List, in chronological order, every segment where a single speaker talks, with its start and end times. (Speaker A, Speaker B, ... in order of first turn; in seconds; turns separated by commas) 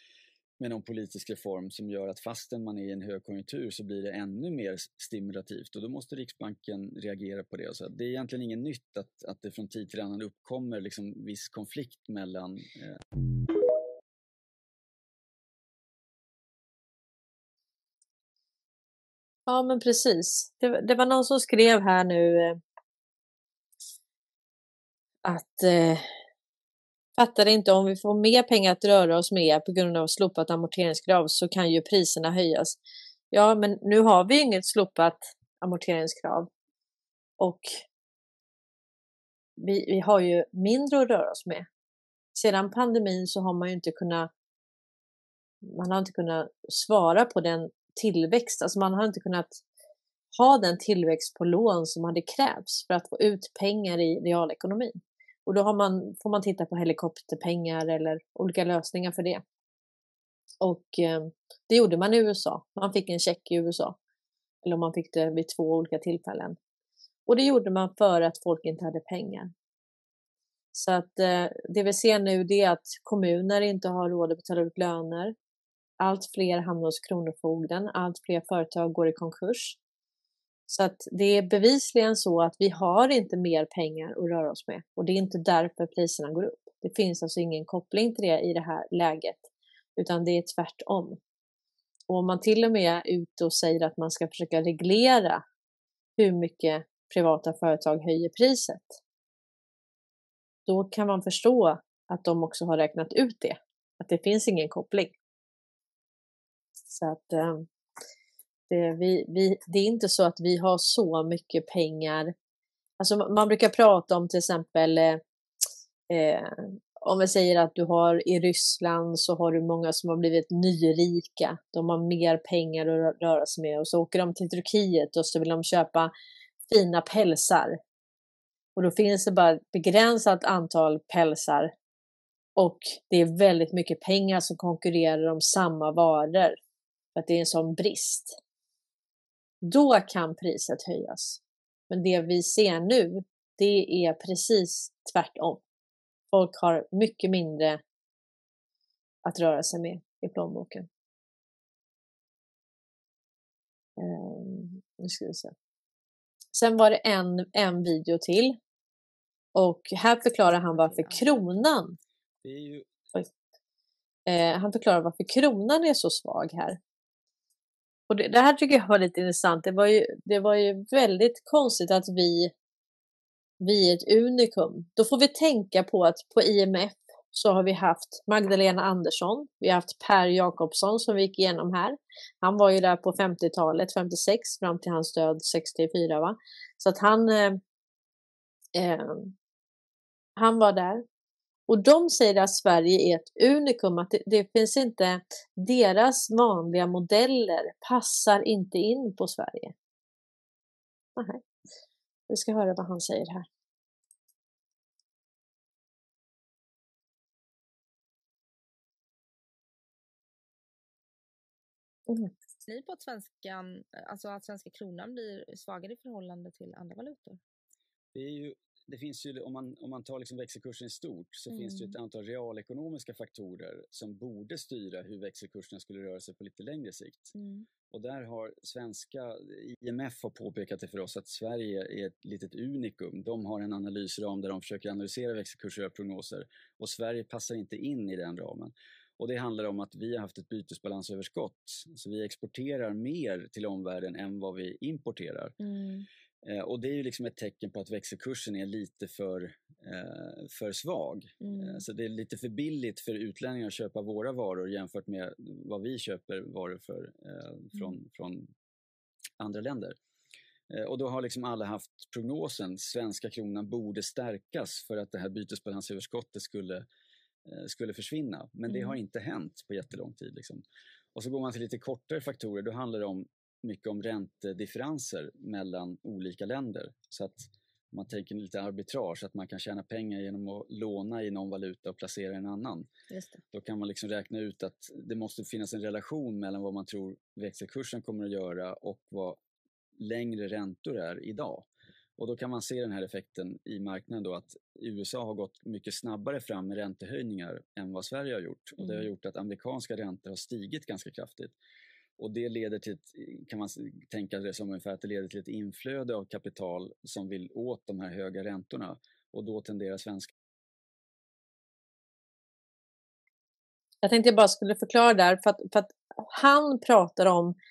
Speaker A: 0.6-13.0, Speaker B: 19.5-22.6, Speaker B: 25.2-26.1, Speaker B: 27.2-32.8, Speaker B: 33.3-36.5, Speaker B: 37.4-37.7, Speaker B: 39.6-41.7, Speaker B: 42.4-44.3, Speaker B: 45.6-49.6, Speaker B: 50.3-59.4, Speaker B: 60.6-64.0, Speaker B: 64.6-66.6, Speaker B: 67.3-69.5, Speaker B: 70.7-75.3, Speaker B: 76.0-79.8, Speaker B: 80.7-91.2, Speaker B: 92.1-95.4, Speaker B: 96.2-99.0, Speaker B: 100.7-105.2, Speaker B: 106.9-107.7, Speaker B: 108.7-112.3, Speaker B: 113.0-115.2, Speaker B: 116.1-126.1, Speaker B: 126.7-127.8, Speaker B: 128.8-131.7, Speaker B: 132.6-136.6, Speaker B: 137.2-138.4, Speaker B: 139.6-145.6, Speaker B: 146.3-147.8, Speaker B: 149.2-150.9, Speaker B: 154.0-155.5, Speaker B: 156.5-158.6, Speaker B: 159.6-162.0, Speaker C: 160.7-161.4, Speaker A: 162.4-162.9, Speaker B: 164.3-166.8, Speaker B: 168.1-172.5, Speaker B: 173.6-187.6, Speaker B: 188.8-189.3, Speaker B: 190.4-191.0, Speaker B: 191.7-199.7, Speaker B: 201.2-201.4, Speaker B: 202.3-203.5, Speaker C: 212.7-217.4, Speaker A: 218.1-227.3, Speaker C: 221.5-222.0, Speaker C: 227.3-227.7, Speaker A: 227.9-245.6, Speaker C: 245.6-246.1, Speaker A: 246.4-258.5, Speaker C: 251.4-251.8, Speaker A: 259.4-260.0, Speaker A: 260.7-266.9, Speaker A: 267.5-270.6, Speaker C: 268.7-269.0, Speaker A: 271.1-282.9, Speaker C: 283.1-283.4, Speaker A: 283.5-289.4, Speaker A: 290.0-301.6, Speaker C: 298.8-299.1, Speaker A: 302.2-310.3, Speaker B: 314.0-317.6